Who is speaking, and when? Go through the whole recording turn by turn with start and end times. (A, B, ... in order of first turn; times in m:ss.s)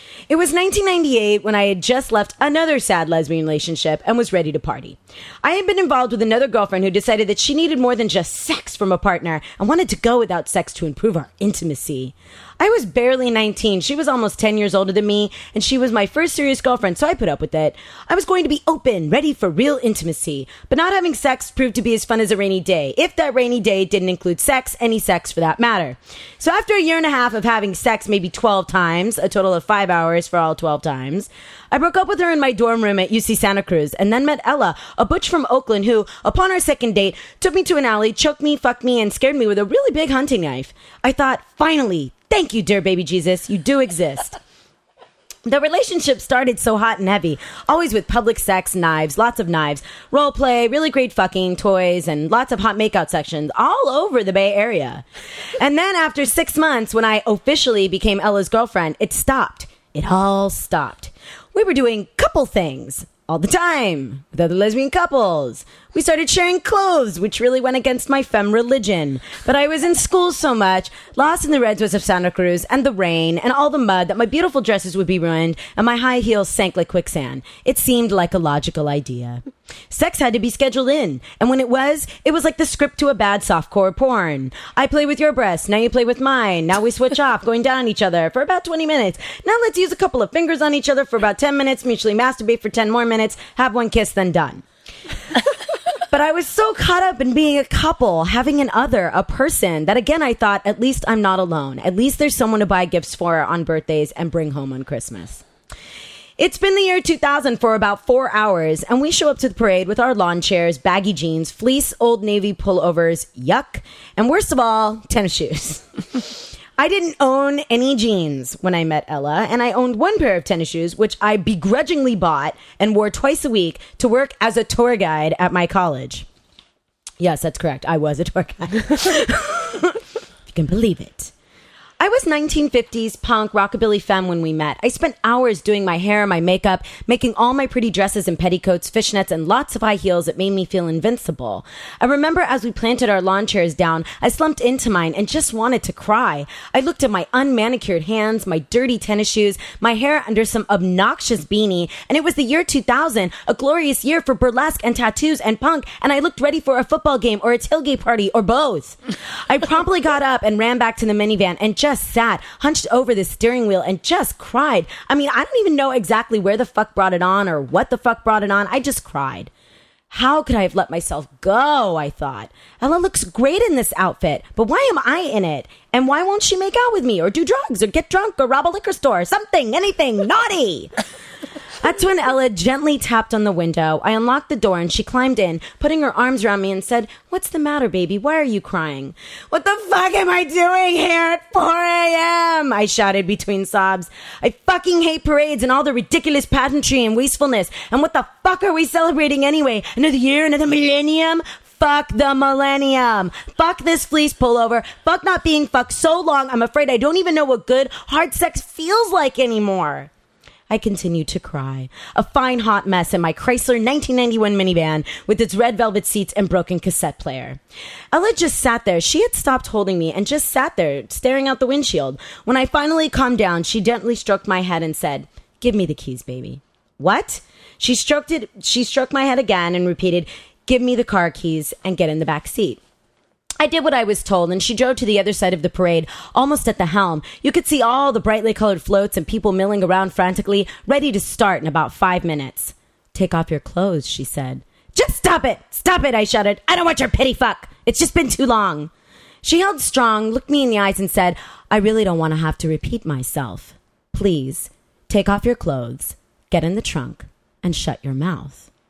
0:00.3-0:44.4 A
0:45.4-0:55.0 A
0:55.6-1:34.6 A
1:36.1-1:45.4 A
1:46.4-2:06.2 A
2:07.2-2:11.3 A
2:12.0-2:49.5 A
2:50.1-3:00.9 A
3:01.8-3:30.1 A
3:30.7-3:37.6 A
3:38.1-3:52.8 A
3:53.6-4:08.9 A
4:09.4-4:18.7 A